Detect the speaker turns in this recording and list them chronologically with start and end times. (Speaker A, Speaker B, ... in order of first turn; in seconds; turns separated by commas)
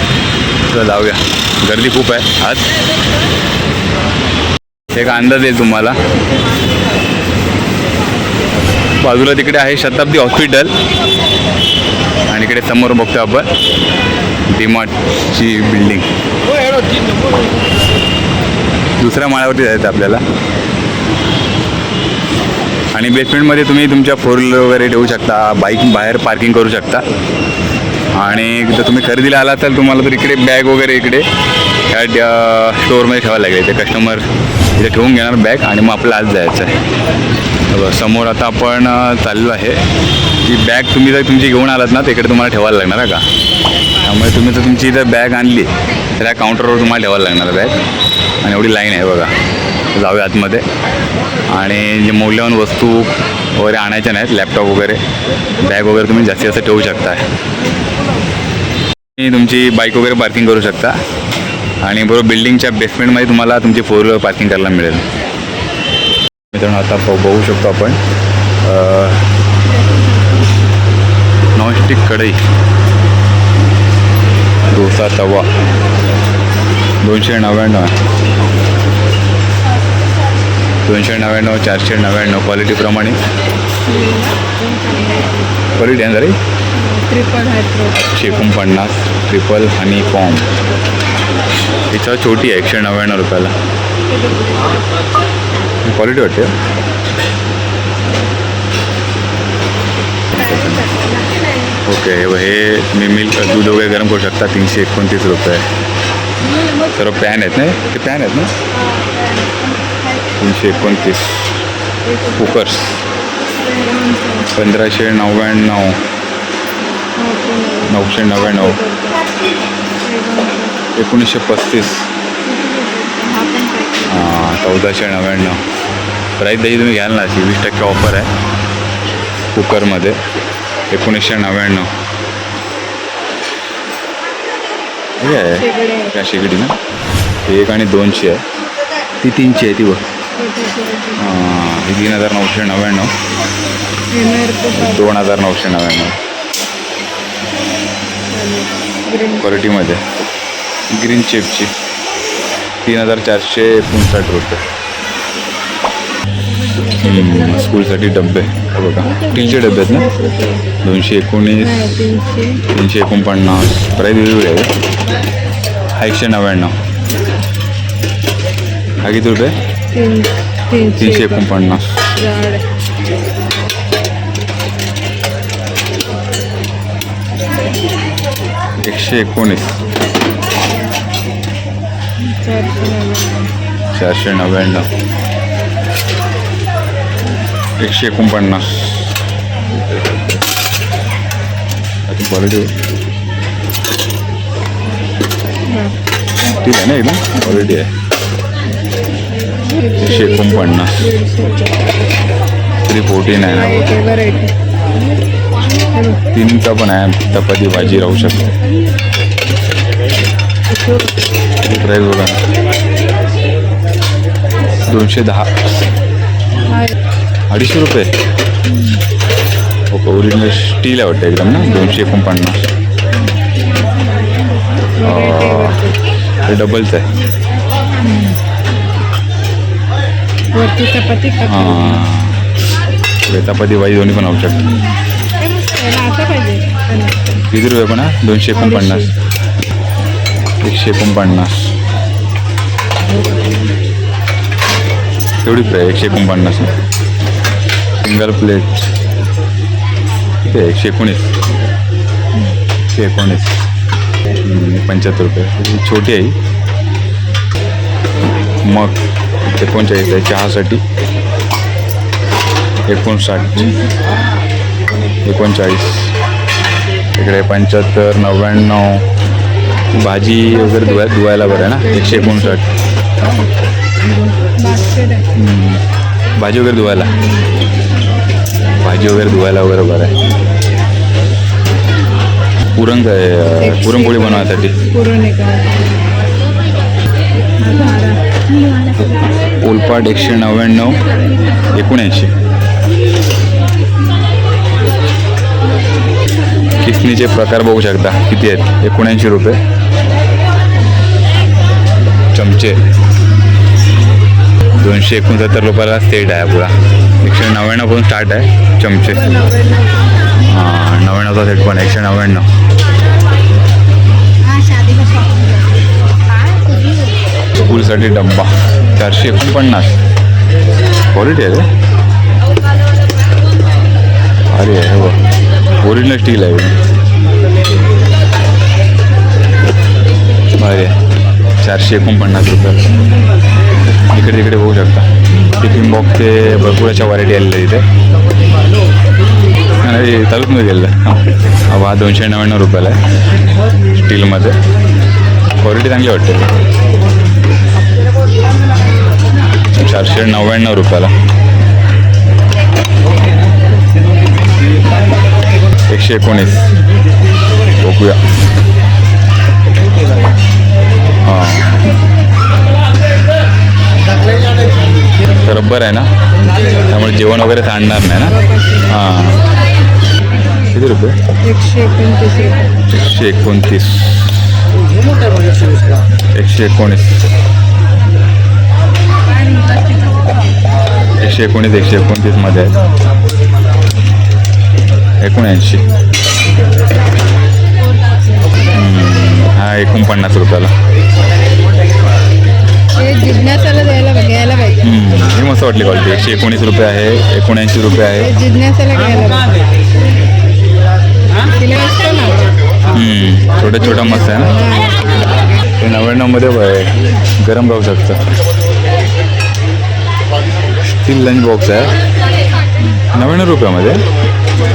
Speaker A: 0.7-2.6, Speaker A: 4.9-6.0, Speaker A: 9.0-10.7, Speaker A: 12.3-13.5, Speaker A: 14.5-16.1, Speaker A: 19.0-20.2, Speaker A: 22.9-27.0, Speaker A: 28.1-31.3, Speaker A: 31.9-34.2, Speaker A: 34.8-36.7, Speaker A: 37.7-39.8, Speaker A: 40.4-43.2, Speaker A: 44.0-47.8, Speaker A: 48.4-49.3, Speaker A: 49.9-50.6, Speaker A: 51.5-55.0, Speaker A: 55.6-57.2, Speaker A: 59.2-61.0, Speaker A: 61.8-65.0, Speaker A: 66.5-68.0, Speaker A: 68.6-69.2, Speaker A: 71.5-72.4, Speaker A: 74.7-75.5, Speaker A: 77.0-77.9, Speaker A: 80.8-83.2, Speaker B: 83.8-85.5, Speaker A: 85.8-86.4, Speaker B: 86.7-88.0, Speaker A: 87.9-90.5, Speaker A: 91.9-93.5, Speaker B: 94.1-94.9, Speaker A: 95.8-96.5, Speaker A: 100.3-100.9, Speaker B: 100.4-101.8, Speaker A: 101.8-105.7, Speaker A: 106.9-108.5, Speaker B: 108.8-109.5, Speaker A: 110.4-111.6, Speaker B: 112.0-112.7, Speaker A: 112.4-113.0, Speaker B: 113.6-114.5, Speaker A: 114.5-116.0, Speaker B: 117.2-119.2, Speaker A: 117.9-118.8, Speaker B: 120.0-120.8, Speaker A: 120.9-122.0, Speaker B: 122.4-124.3, Speaker A: 124.0-125.6, Speaker A: 126.4-128.3, Speaker A: 129.5-130.2, Speaker A: 130.9-131.9, Speaker A: 135.2-136.8, Speaker B: 135.2-136.1, Speaker A: 137.5-138.4, Speaker A: 139.2-140.0, Speaker B: 140.3-141.2, Speaker A: 141.2-143.1, Speaker B: 144.1-145.1, Speaker A: 144.7-146.2, Speaker B: 148.3-149.7, Speaker A: 149.4-150.0, Speaker A: 150.9-151.7, Speaker A: 152.8-154.6, Speaker B: 156.7-157.7, Speaker A: 157.0-160.1, Speaker B: 159.0-160.6, Speaker A: 160.8-162.0, Speaker B: 161.6-162.6, Speaker A: 162.7-164.7, Speaker A: 165.9-166.7, Speaker A: 169.0-169.5, Speaker B: 169.9-171.6, Speaker A: 171.0-172.0, Speaker B: 172.2-172.6, Speaker A: 178.8-179.8, Speaker B: 182.2-183.5, Speaker A: 183.9-184.9, Speaker A: 187.8-189.1, Speaker A: 189.7-190.4, Speaker A: 192.1-192.7, Speaker B: 195.7-195.9, Speaker A: 196.6-197.9, Speaker B: 197.4-197.8, Speaker B: 199.5-201.9, Speaker A: 200.0-201.1, Speaker A: 202.8-203.9, Speaker B: 203.4-204.5, Speaker B: 205.8-206.2, Speaker A: 206.3-208.5, Speaker B: 207.7-208.6, Speaker B: 210.7-211.1, Speaker A: 211.6-212.4, Speaker A: 214.9-215.5, Speaker B: 216.7-216.9, Speaker A: 217.5-218.1, Speaker B: 218.7-219.0, Speaker A: 219.9-222.7, Speaker B: 221.6-222.1, Speaker B: 224.9-225.9, Speaker A: 225.0-225.8, Speaker A: 226.5-227.1, Speaker B: 228.0-228.4, Speaker B: 230.5-232.1, Speaker A: 231.5-232.4, Speaker A: 233.3-234.7, Speaker B: 234.3-237.2, Speaker A: 237.5-239.1, Speaker B: 238.5-239.1, Speaker A: 240.6-241.5, Speaker A: 245.4-246.7, Speaker A: 248.0-248.9, Speaker A: 250.4-251.3, Speaker A: 252.9-253.5, Speaker A: 254.4-256.3, Speaker A: 258.6-258.9, Speaker A: 259.4-260.8, Speaker A: 262.9-263.6, Speaker A: 265.2-266.1, Speaker A: 267.1-269.0, Speaker A: 269.9-272.6, Speaker B: 270.5-272.6, Speaker B: 274.6-275.2, Speaker A: 275.3-275.8, Speaker A: 276.4-277.1, Speaker B: 276.8-277.4, Speaker A: 278.8-280.1, Speaker A: 282.7-284.8, Speaker B: 283.5-285.7, Speaker B: 287.6-288.2, Speaker A: 289.6-291.0, Speaker A: 291.7-292.3, Speaker A: 296.8-299.6, Speaker A: 302.3-302.8, Speaker A: 304.8-309.4, Speaker B: 309.1-310.1, Speaker A: 310.4-312.5, Speaker B: 314.5-315.4, Speaker B: 316.5-317.1, Speaker A: 317.6-320.0, Speaker A: 321.1-321.7, Speaker A: 324.5-325.2, Speaker A: 325.8-326.8, Speaker A: 330.6-330.9, Speaker A: 331.6-332.9, Speaker A: 334.1-337.8, Speaker A: 339.8-343.0, Speaker A: 344.0-344.6, Speaker A: 345.6-346.5, Speaker A: 349.8-351.1, Speaker A: 355.9-356.7, Speaker A: 357.8-358.2, Speaker A: 361.2-361.7, Speaker A: 365.4-366.1, Speaker A: 366.9-368.4, Speaker B: 368.2-369.0, Speaker A: 368.9-369.4, Speaker A: 370.7-371.1, Speaker B: 371.4-372.6, Speaker A: 372.9-374.1, Speaker A: 376.3-377.3, Speaker A: 381.2-382.7, Speaker A: 385.2-385.9, Speaker A: 388.7-390.7, Speaker B: 392.9-394.8, Speaker A: 394.8-398.3, Speaker B: 398.1-399.5, Speaker B: 401.5-402.4, Speaker A: 402.9-404.5, Speaker B: 403.8-405.4, Speaker A: 405.8-408.2, Speaker A: 410.9-411.9, Speaker A: 413.1-414.0